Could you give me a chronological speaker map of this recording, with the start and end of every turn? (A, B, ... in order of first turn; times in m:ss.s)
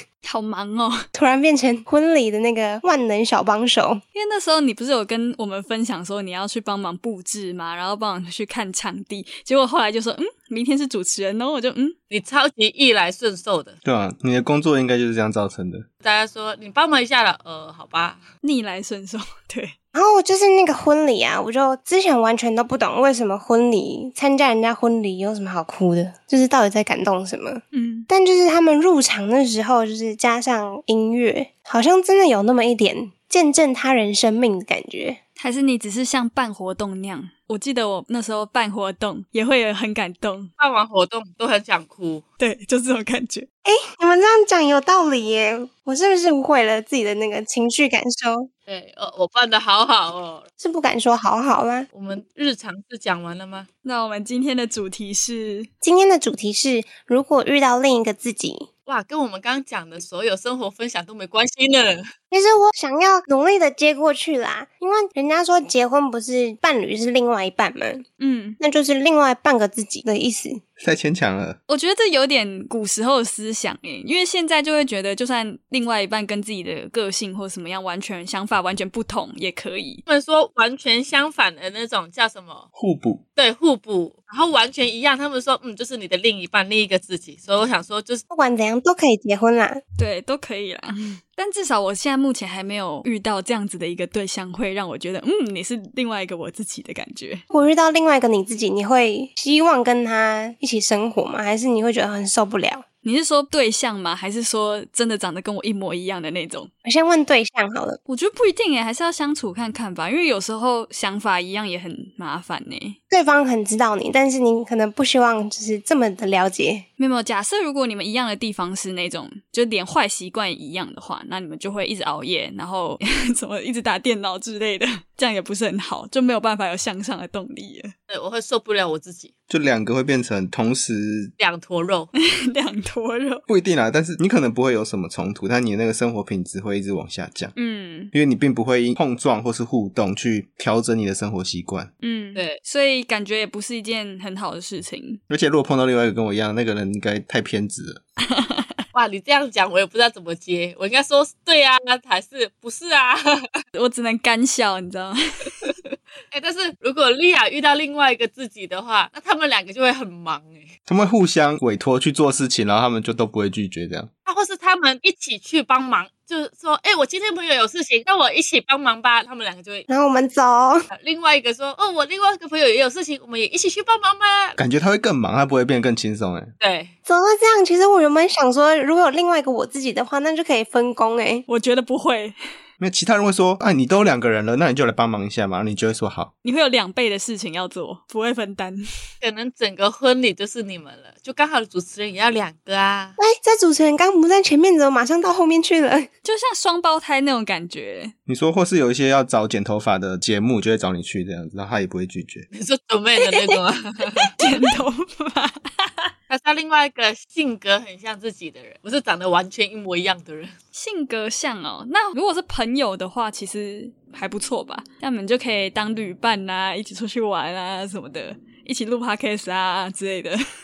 0:00.2-0:01.0 A
0:01.1-0:04.0 B
0:04.1-0:12.0 A
0:12.1-0:13.8 C
0:13.8-0:15.8 D
0:16.0-0:18.2 C
0:18.4-0:19.7 A
0:19.9-0:35.2 B
0:27.7-0:28.1 A
0:35.4-0:40.5 A
0:40.6-0:42.2 C
0:42.4-0:43.5 A
0:43.6-0:48.5 B
0:48.7-0:50.4 C
0:50.6-0:51.9 B
0:51.9-0:53.7 C
0:53.8-0:55.7 A
0:55.8-0:58.7 B
0:58.9-1:02.1 C
1:02.3-1:08.0 B
1:08.2-1:08.6 A
1:08.6-1:10.6 B
1:10.8-1:11.6 D
1:11.7-1:20.0 A
1:20.1-1:22.6 C
1:22.8-1:23.2 D
1:23.4-1:28.2 C
1:28.3-1:29.8 B
1:30.0-1:37.4 A
1:37.5-1:42.8 B
1:43.0-1:46.7 A
1:46.8-1:48.0 B
1:48.1-1:53.0 A
1:53.1-1:56.8 B
1:57.0-2:07.9 A
2:08.1-2:09.3 C
2:09.5-2:11.3 D
2:11.4-2:12.1 C
2:12.2-2:13.4 A
2:13.5-2:17.5 D
2:17.6-2:18.1 A
2:18.1-2:21.9 D
2:22.0-2:25.2 A
2:25.3-2:28.0 D
2:28.3-2:28.7 A
2:28.9-2:33.6 C
2:33.7-2:35.7 A
2:36.3-2:40.7 C
2:40.9-2:44.1 D
2:44.2-2:49.8 C
2:49.9-2:50.9 B
2:50.9-2:54.6 C
2:54.6-2:56.5 D
2:56.6-2:56.9 C
2:57.1-3:01.4 B
3:01.5-3:02.4 A
3:02.8-3:06.3 D
3:06.4-3:08.8 A
3:09.2-3:13.2 C
3:13.2-3:16.1 B
3:16.2-3:18.1 A
3:18.3-3:22.5 D
3:22.5-3:24.7 C
3:24.4-3:26.1 A
3:26.3-3:30.5 C
3:30.7-3:40.4 A